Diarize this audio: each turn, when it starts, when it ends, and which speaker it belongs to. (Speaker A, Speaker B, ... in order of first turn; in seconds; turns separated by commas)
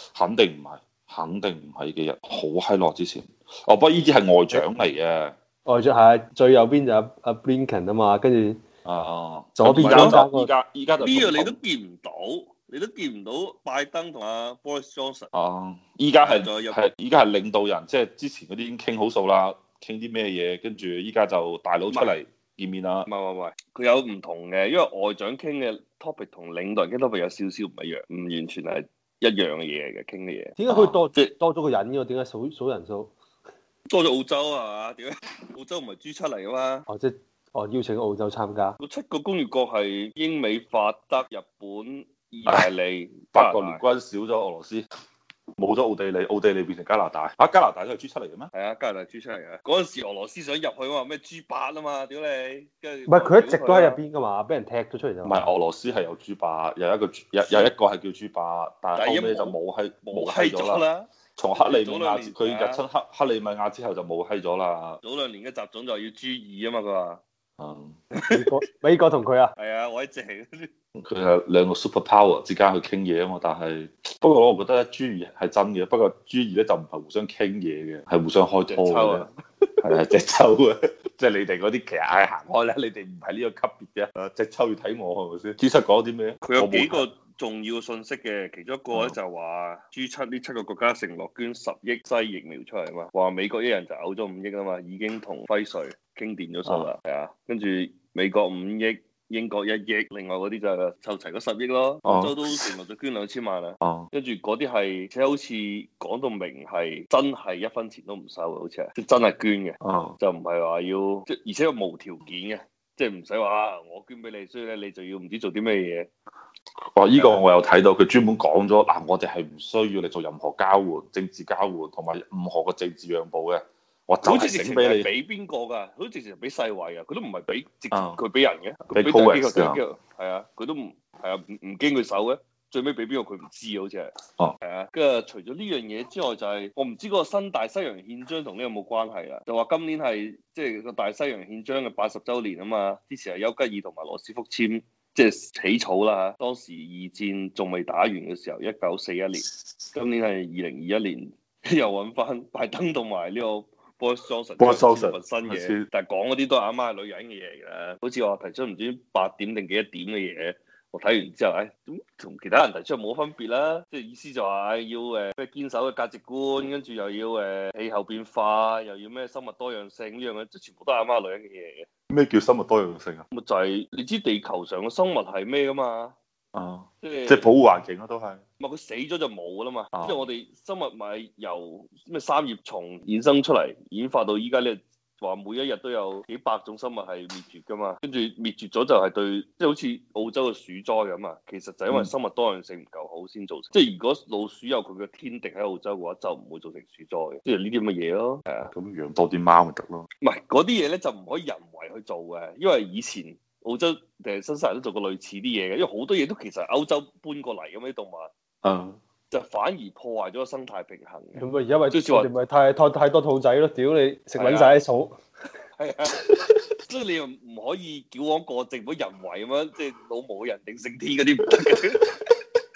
Speaker A: 0.1-5.3, Speaker B: 5.7-8.6, Speaker A: 8.8-11.6, Speaker B: 9.6-10.5, Speaker C: 9.8-10.2, Speaker C: 11.0-15.3, Speaker A: 15.3-23.1, Speaker C: 16.2-16.8, Speaker C: 21.9-22.1, Speaker C: 23.1-30.6, Speaker B: 30.6-33.1, Speaker A: 30.7-30.9, Speaker C: 33.9-36.9, Speaker B: 36.9-38.8, Speaker C: 38.8-43.8, Speaker A: 43.3-44.8, Speaker A: 45.6-48.5, Speaker C: 48.5-54.0, Speaker B: 53.1-55.4, Speaker A: 55.2-60.8, Speaker C: 57.4-57.7, Speaker C: 58.9-62.8, Speaker A: 61.4-65.0, Speaker C: 65.0-67.2, Speaker A: 67.6-68.0, Speaker C: 68.2-68.6, Speaker B: 68.3-69.5, Speaker C: 69.5-70.7, Speaker A: 71.0-79.2, Speaker C: 78.7-79.3, Speaker A: 79.8-87.0, Speaker C: 86.4-116.1, Speaker A: 88.9-89.2, Speaker A: 96.7-96.9, Speaker A: 102.0-102.6, Speaker A: 103.8-104.1, Speaker A: 109.8-110.2, Speaker A: 116.9-125.1, Speaker C: 117.1-117.4, Speaker C: 124.2-171.9, Speaker A: 127.9-128.2, Speaker A: 128.9-129.8, Speaker A: 154.6-155.9, Speaker A: 172.1-173.2, Speaker C: 173.3-176.1, Speaker A: 176.5-178.4, Speaker C: 177.0-177.5, Speaker C: 178.6-198.7, Speaker A: 179.9-180.3, Speaker A: 198.7-200.1, Speaker C: 200.2-208.3, Speaker A: 208.6-209.0, Speaker C: 209.3-212.3, Speaker B: 211.3-215.2, Speaker C: 214.4-214.8, Speaker C: 215.8-216.2, Speaker A: 216.2-216.5, Speaker C: 216.9-222.1